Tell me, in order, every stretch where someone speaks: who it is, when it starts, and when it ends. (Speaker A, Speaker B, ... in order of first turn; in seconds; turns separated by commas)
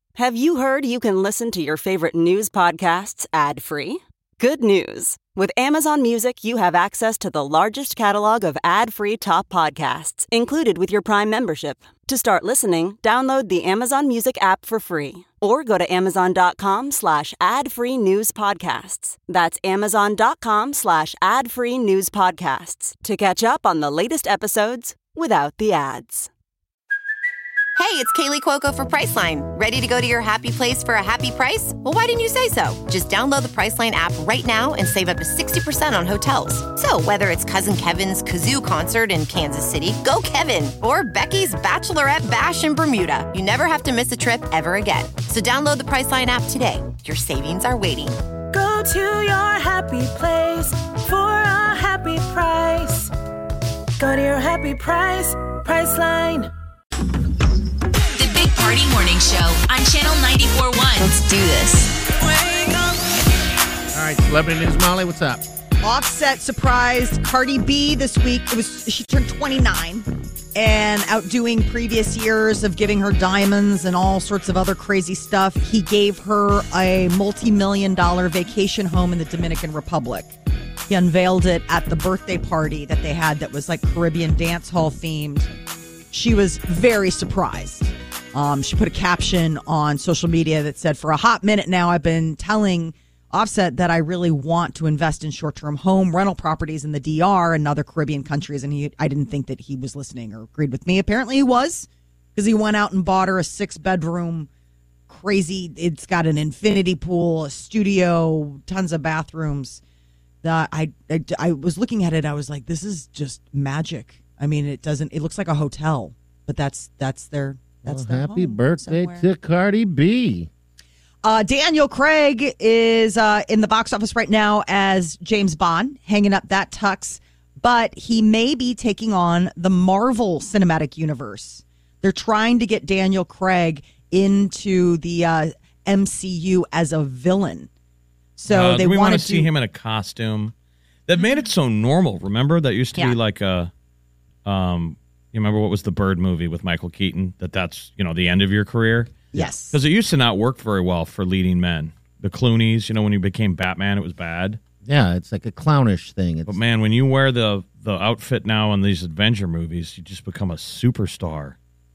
Speaker A: 0.1-26.3, Speaker B: 27.8-48.1, Speaker C: 48.5-53.1, Speaker C: 54.0-56.5, Speaker D: 58.1-61.3, Speaker B: 61.0-61.9, Speaker C: 62.2-63.0, Speaker E: 63.9-65.4, Speaker F: 65.8-80.4, Speaker F: 80.9-85.5, Speaker F: 86.1-104.5, Speaker F: 105.1-109.8, Speaker F: 110.4-119.2, Speaker E: 117.8-120.5, Speaker F: 121.2-137.7, Speaker F: 138.4-139.5, Speaker G: 138.5-140.5, Speaker G: 141.1-143.7, Speaker G: 144.4-154.6, Speaker F: 149.3-149.8, Speaker E: 154.8-156.6, Speaker G: 156.5-161.6